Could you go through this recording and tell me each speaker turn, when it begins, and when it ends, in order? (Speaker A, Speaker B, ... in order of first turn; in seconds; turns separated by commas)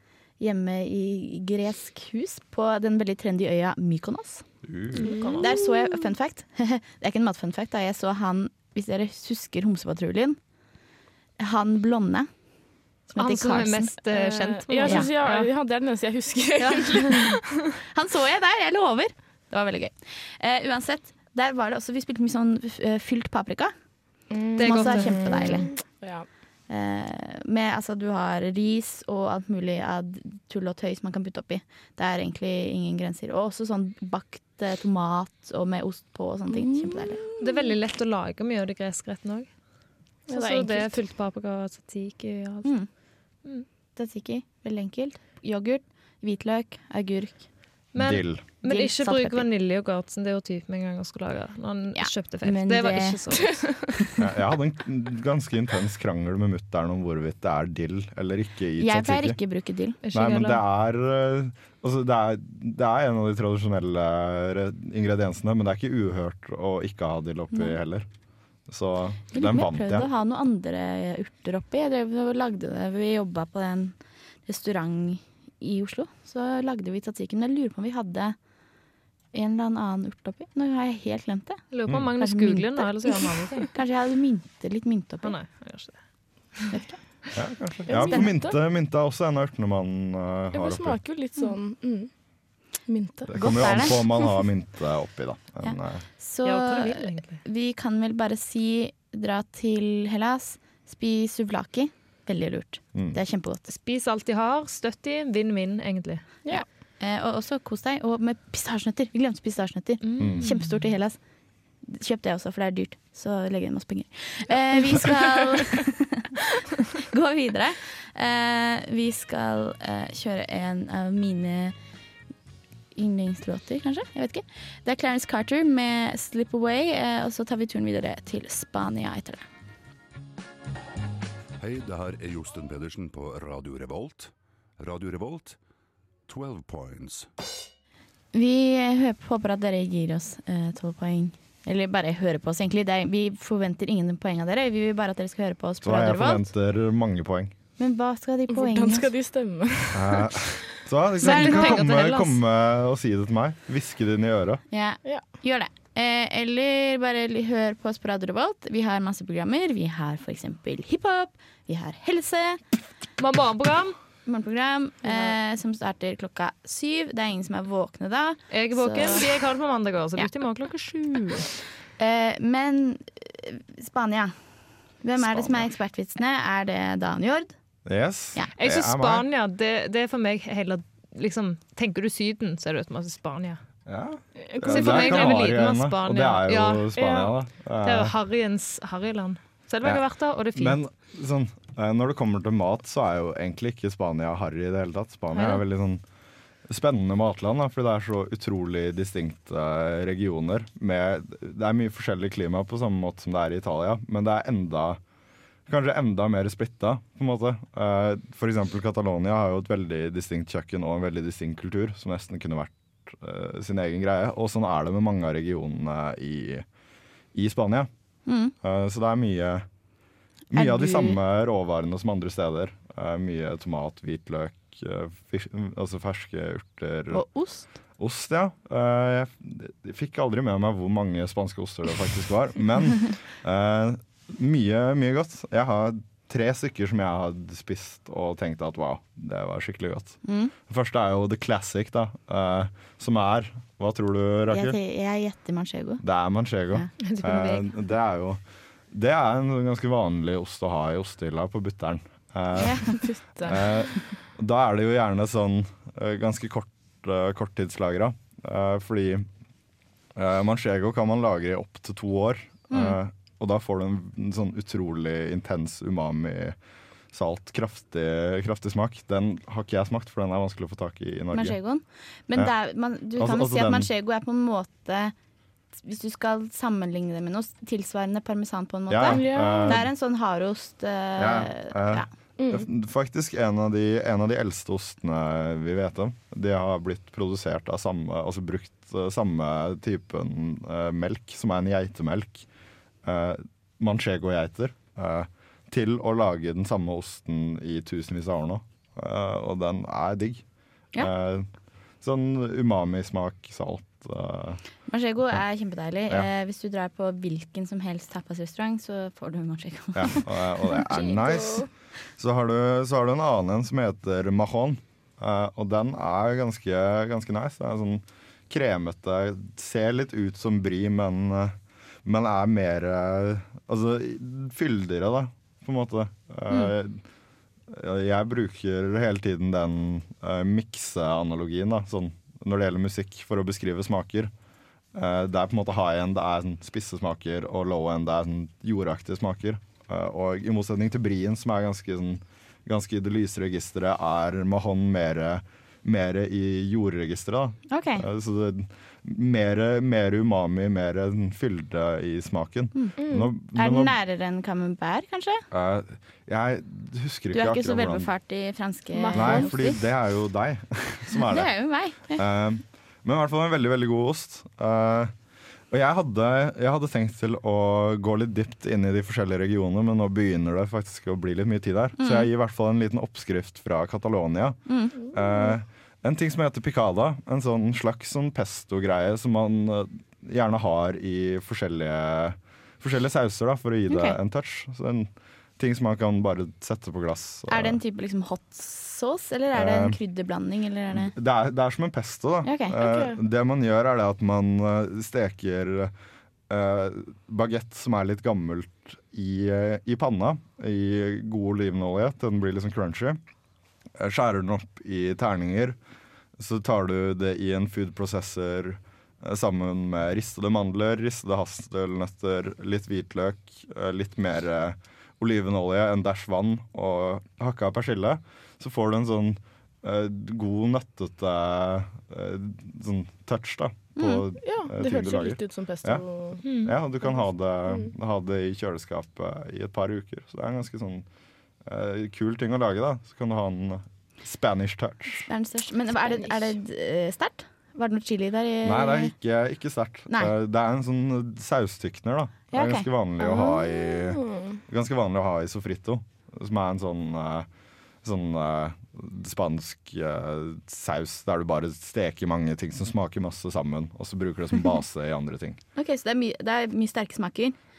Speaker A: 0.4-4.5, Speaker B: 4.7-5.0, Speaker C: 4.9-5.5, Speaker D: 5.0-6.0, Speaker A: 5.4-10.4, Speaker A: 11.4-12.3, Speaker A: 13.1-13.9, Speaker C: 13.2-15.5, Speaker D: 14.1-17.4, Speaker C: 16.6-17.4, Speaker A: 17.9-23.7, Speaker D: 24.3-26.3, Speaker A: 24.6-25.8, Speaker C: 24.6-25.6, Speaker A: 26.7-37.2, Speaker D: 36.5-37.8, Speaker C: 37.4-39.6, Speaker C: 40.3-42.9, Speaker D: 40.3-41.0, Speaker A: 44.0-47.5, Speaker C: 47.9-53.9, Speaker B: 48.0-48.5, Speaker A: 48.6-49.5, Speaker A: 52.0-53.2, Speaker B: 54.2-59.4, Speaker A: 58.8-60.0, Speaker C: 60.0-60.6, Speaker B: 60.1-68.1, Speaker B: 68.7-70.1, Speaker A: 69.3-78.4, Speaker A: 79.3-81.6, Speaker C: 81.7-83.7, Speaker B: 81.9-82.1, Speaker A: 82.2-85.3, Speaker C: 85.2-86.7, Speaker A: 86.7-87.0, Speaker B: 87.3-91.0, Speaker D: 87.9-88.6, Speaker A: 87.9-88.3, Speaker D: 90.5-92.1, Speaker D: 92.8-93.4, Speaker B: 93.3-96.1, Speaker A: 93.3-94.0, Speaker A: 95.6-103.6, Speaker C: 96.4-97.4, Speaker C: 103.7-106.3, Speaker A: 106.5-111.2, Speaker C: 110.0-110.7, Speaker B: 110.2-110.5, Speaker A: 111.8-116.3, Speaker A: 117.1-121.8, Speaker A: 122.9-129.5, Speaker E: 131.6-135.6, Speaker E: 136.3-137.3, Speaker A: 138.3-146.5, Speaker B: 145.8-147.5, Speaker A: 147.8-149.1, Speaker D: 148.5-150.6, Speaker B: 149.9-154.6, Speaker C: 151.2-152.4, Speaker A: 151.2-151.8, Speaker A: 154.7-162.6, Speaker C: 163.2-164.0, Speaker A: 164.3-169.2, Speaker C: 168.5-171.5, Speaker A: 172.0-174.3, Speaker A: 175.0-177.5, Speaker B: 175.2-175.7, Speaker B: 177.8-179.3, Speaker C: 178.6-183.6, Speaker B: 183.9-188.1, Speaker D: 184.4-185.4, Speaker C: 184.7-186.9, Speaker D: 186.9-187.3, Speaker C: 187.8-190.8, Speaker B: 189.8-196.0, Speaker C: 195.3-195.6, Speaker B: 196.7-205.0, Speaker B: 205.7-216.7, Speaker B: 217.3-217.9, Speaker A: 218.3-218.5, Speaker B: 218.6-219.7, Speaker B: 220.5-227.2, Speaker A: 220.5-221.2, Speaker A: 227.1-227.7, Speaker B: 228.0-244.8, Speaker A: 240.2-240.5, Speaker A: 244.5-246.0, Speaker B: 246.0-248.4, Speaker C: 247.0-247.7, Speaker B: 248.9-259.3, Speaker A: 252.6-253.0, Speaker D: 252.9-253.9, Speaker B: 260.1-266.6, Speaker A: 262.7-263.0, Speaker B: 267.1-271.6, Speaker A: 271.3-275.1, Speaker B: 273.2-273.9, Speaker A: 275.7-282.1, Speaker B: 278.9-279.9, Speaker D: 279.0-279.8, Speaker B: 281.2-292.5, Speaker D: 282.4-282.7, Speaker B: 293.0-300.4, Speaker B: 301.0-301.5, Speaker B: 302.0-304.6, Speaker A: 304.9-310.8, Speaker B: 309.9-327.0, Speaker D: 310.9-311.7, Speaker B: 327.7-334.3, Speaker B: 334.9-353.9, Speaker A: 347.7-348.1, Speaker A: 352.7-355.4, Speaker D: 353.0-353.3, Speaker B: 355.5-358.1, Speaker A: 357.3-359.8, Speaker D: 358.9-359.7, Speaker B: 359.1-365.1, Speaker A: 361.3-362.2, Speaker B: 365.7-387.8, Speaker A: 372.0-372.3, Speaker A: 374.7-375.0, Speaker D: 375.0-375.5, Speaker A: 383.9-384.2, Speaker A: 387.5-391.1, Speaker B: 389.5-390.0, Speaker B: 390.9-395.9, Speaker A: 392.4-392.8, Speaker D: 392.8-393.2, Speaker B: 396.5-403.2, Speaker B: 404.0-405.8, Speaker B: 406.4-431.1, Speaker A: 424.0-424.2, Speaker D: 424.4-427.9, Speaker C: 426.4-426.8, Speaker B: 431.6-435.3, Speaker A: 435.3-439.1, Speaker B: 438.6-447.5, Speaker A: 442.5-442.9, Speaker D: 443.2-444.6, Speaker B: 448.0-455.6, Speaker A: 455.8-457.6